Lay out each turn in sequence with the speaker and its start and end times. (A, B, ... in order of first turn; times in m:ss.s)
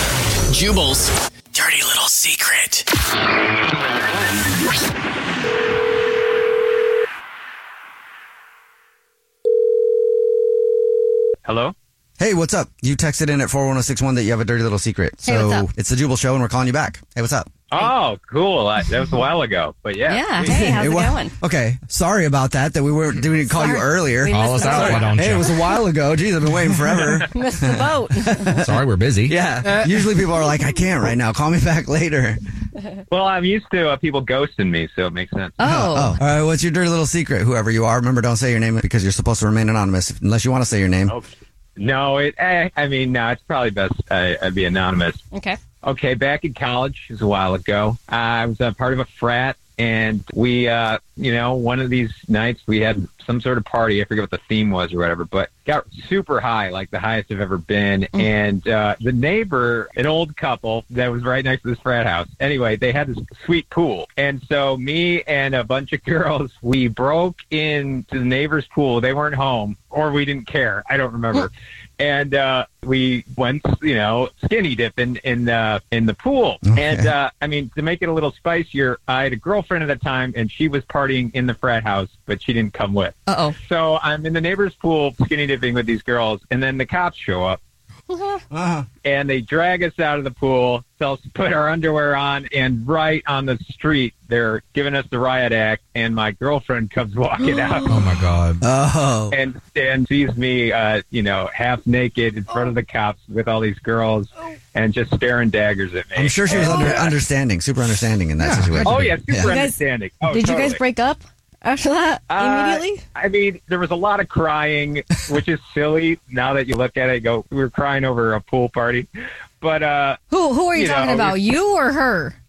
0:00.5-0:02.8 A
0:11.4-0:11.7 B
0:12.2-0:17.5 C
0:15.2-0:15.7 D
0:17.7-0:20.6 B
0:20.0-0:21.3 D
0:20.4-0:28.7 C
0:23.5-0:25.4 D
0:24.3-0:25.6 E
0:27.3-0:28.6 D
0:28.6-0:29.4 E
0:29.2-0:32.4 C
0:33.1-0:35.6 B
0:35.6-0:36.2 D
0:35.6-0:41.2 C
0:41.1-0:45.2 B
0:45.3-0:45.6 D
0:45.8-1:27.6 B
1:16.7-1:17.1 C
1:23.3-1:23.6 D
1:28.1-1:28.4 D
1:28.5-1:28.8 C
1:29.0-1:37.9 B
1:37.9-1:38.6 E
1:38.6-1:39.4 C
1:39.3-1:47.1 B
1:46.1-1:49.6 C
1:46.6-1:46.9 D
1:48.4-1:49.0 E
1:48.8-1:50.8 B
1:49.4-1:53.0 D
1:52.3-1:59.1 B
1:59.6-2:00.2 B
2:00.3-2:02.3 D
2:00.7-2:01.4 B